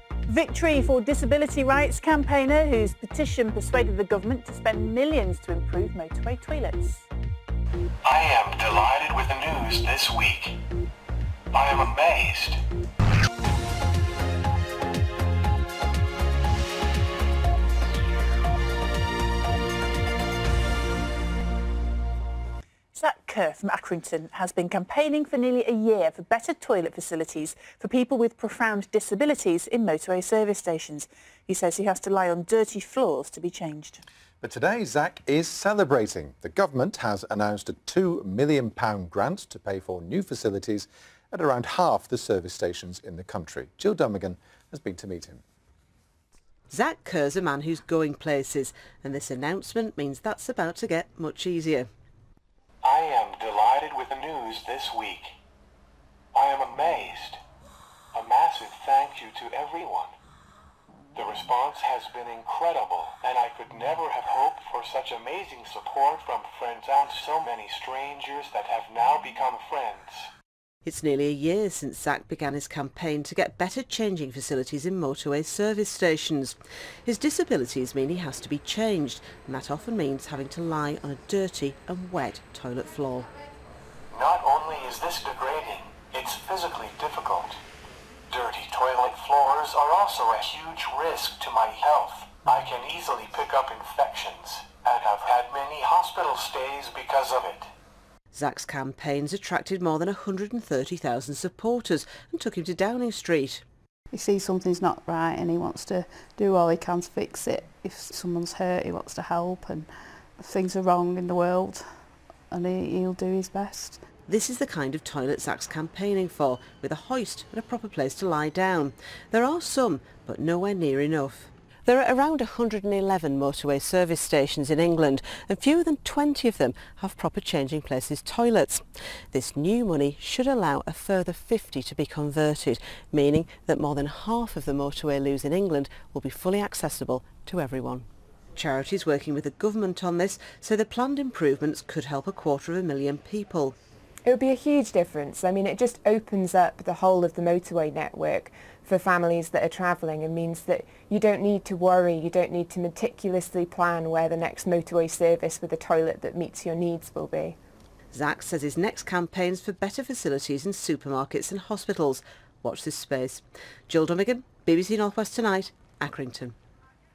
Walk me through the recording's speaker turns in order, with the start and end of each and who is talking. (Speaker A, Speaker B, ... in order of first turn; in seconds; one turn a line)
Speaker A: 0.3-7.1
Speaker B: 8.0-10.6
Speaker B: 11.5-12.6
Speaker A: 22.9-34.0
Speaker C: 34.4-45.4
Speaker D: 46.7-51.9
Speaker B: 52.8-55.4
Speaker B: 56.3-57.4
Speaker B: 58.1-60.1
Speaker B: 61.1-70.3
Speaker D: 70.8-83.3
Speaker B: 84.1-87.6
Speaker B: 88.3-97.7
Speaker D: 98.3-103.6
Speaker E: 104.1-114.0
Speaker D: 114.3-143.8
Speaker F: 144.3-157.6
Speaker D: 158.1-166.6